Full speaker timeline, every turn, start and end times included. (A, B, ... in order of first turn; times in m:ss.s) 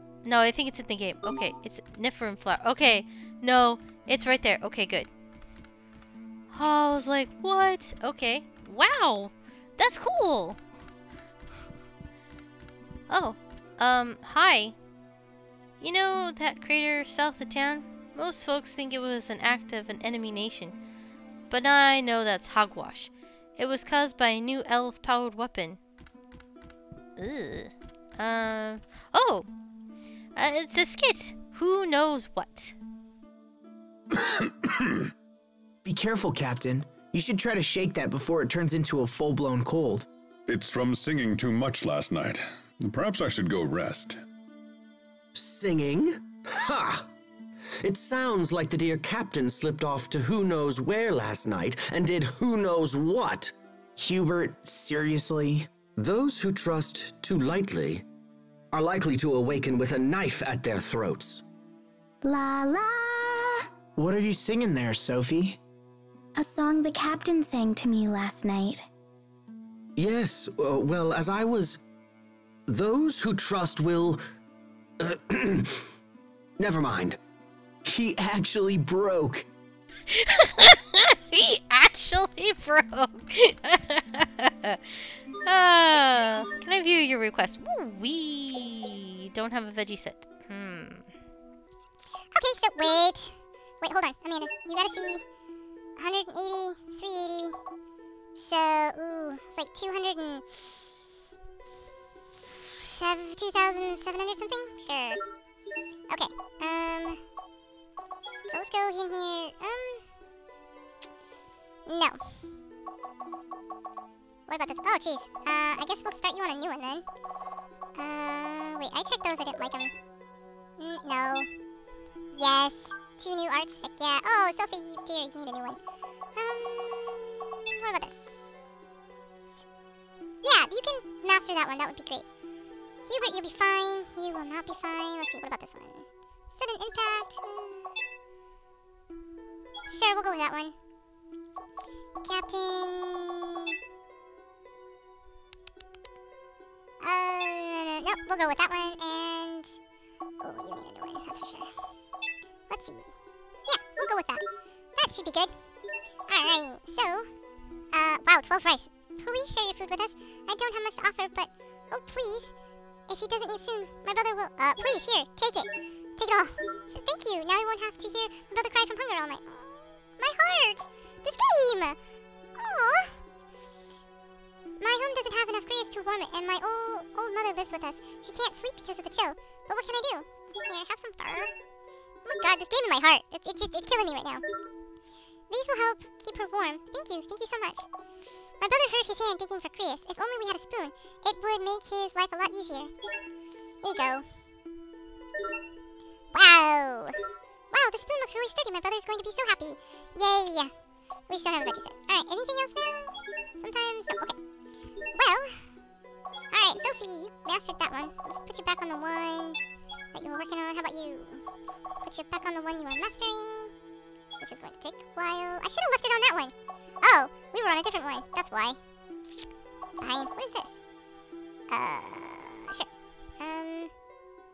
0:00.2-0:05.1 A
0:06.5-0:10.6 A
0:13.1-0:14.8 A
0:15.8-0:20.8 A
0:21.5-0:25.8 A
0:27.2-0:29.5 A
0:30.4-0:32.7 A
0:35.8-0:40.1 B
0:40.5-0:44.2 C
0:45.4-0:47.1 D
0:47.8-0:53.5 D
0:54.0-0:55.7 B
0:56.0-0:58.0 D
0:58.7-1:01.4 D
1:02.2-1:03.6 E
1:04.0-1:05.6 B
1:06.4-1:08.9 E
1:10.0-1:11.8 D
1:12.7-1:14.2 D
1:15.0-1:15.8 D
1:16.6-1:17.2 D
1:17.8-1:19.5 B
1:20.1-1:31.1 A
1:32.3-1:35.2 F
1:36.0-1:37.6 F
1:38.4-1:40.6 F
1:42.8-1:45.2 F
1:46.1-1:47.2 F
1:48.5-1:50.0 F
1:51.9-1:52.2 F
1:54.5-1:57.0 F
1:58.0-1:59.9 F
2:00.8-2:01.5 F
2:02.3-2:05.8 F
2:06.4-2:08.5 F
2:10.4-2:12.2 F
2:13.1-2:17.8 F
2:19.9-2:20.8 F
2:22.2-2:23.7 F
2:27.0-2:29.8 F
2:30.4-2:31.7 F
2:32.7-2:33.2 F
2:33.7-2:34.4 F
2:35.0-2:35.5 F
2:36.3-2:37.3 F
2:37.9-2:42.5 F
2:43.1-2:52.0 F
2:52.6-2:53.2 F
2:54.8-3:01.5 F
3:02.2-3:04.4 F
3:05.5-3:07.9 F
3:08.6-3:12.9 F
3:13.8-3:14.2 F
3:16.3-3:17.2 F
3:17.7-3:20.7 F
3:21.3-3:24.4 F
3:25.2-3:25.6 F
3:26.5-3:29.6 F
3:30.1-3:31.4 F
3:32.0-3:33.7 F
3:34.4-3:38.8 F
3:40.0-3:40.8 F
3:41.7-3:42.9 F
3:43.4-3:43.9 F